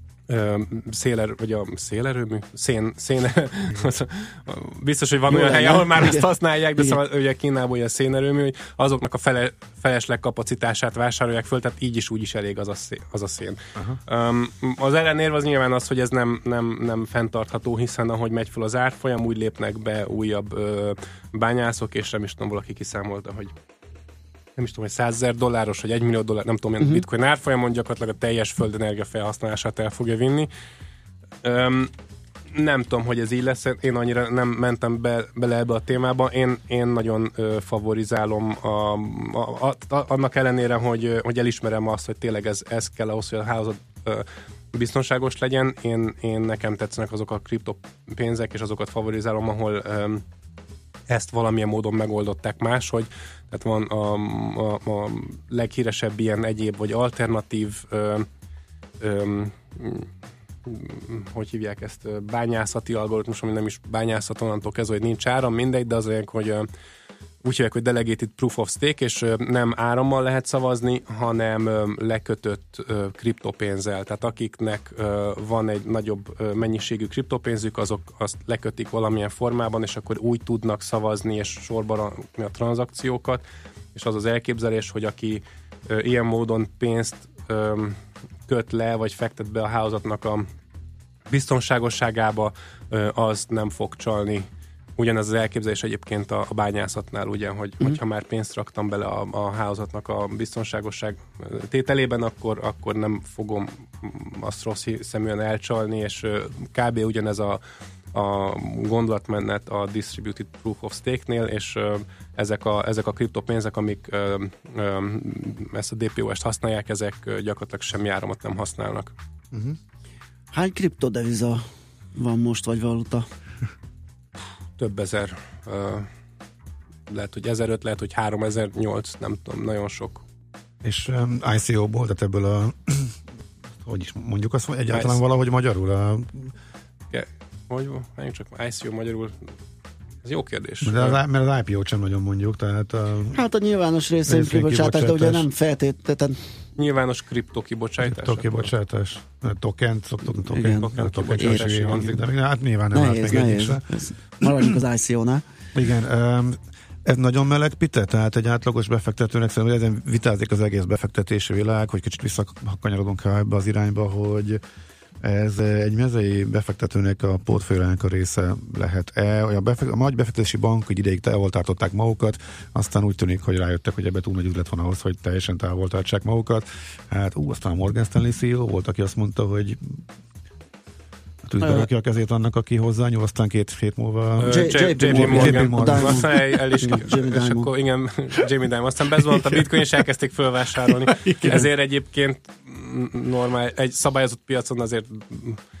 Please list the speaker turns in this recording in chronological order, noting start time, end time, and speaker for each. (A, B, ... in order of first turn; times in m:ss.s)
0:00.3-0:23.5 A
0:05.3-0:07.0 B
0:13.8-0:14.0 C
0:24.6-0:30.5 A
0:26.8-0:27.0 B
0:31.4-0:31.9 A
0:32.5-0:50.2 A
0:51.1-0:58.3 A
0:59.0-1:00.1 A
1:00.6-1:06.7 A
1:07.4-1:23.4 A
1:23.9-1:30.4 A
1:31.3-1:47.6 A
1:48.1-1:59.1 A
2:00.5-2:01.6 B
2:02.1-2:03.2 B
2:04.8-2:06.1 A
2:07.1-2:10.2 A
2:10.8-2:13.1 C
2:13.8-2:16.5 C
2:14.9-2:15.2 A
2:17.1-2:19.4 A
2:20.2-2:21.2 A
2:20.8-2:23.4 C
2:23.3-2:26.4 B
2:24.3-2:25.5 C
2:26.8-2:28.7 A
2:28.0-2:33.8 C
2:30.5-2:32.2 B
2:30.6-2:32.1 A
2:32.9-2:35.4 B
2:35.7-2:44.6 C
2:45.2-3:00.0 C
3:01.4-3:06.4 C
3:01.6-3:01.9 B
3:04.4-3:15.6 A
3:04.5-3:07.7 B
3:10.9-3:11.7 C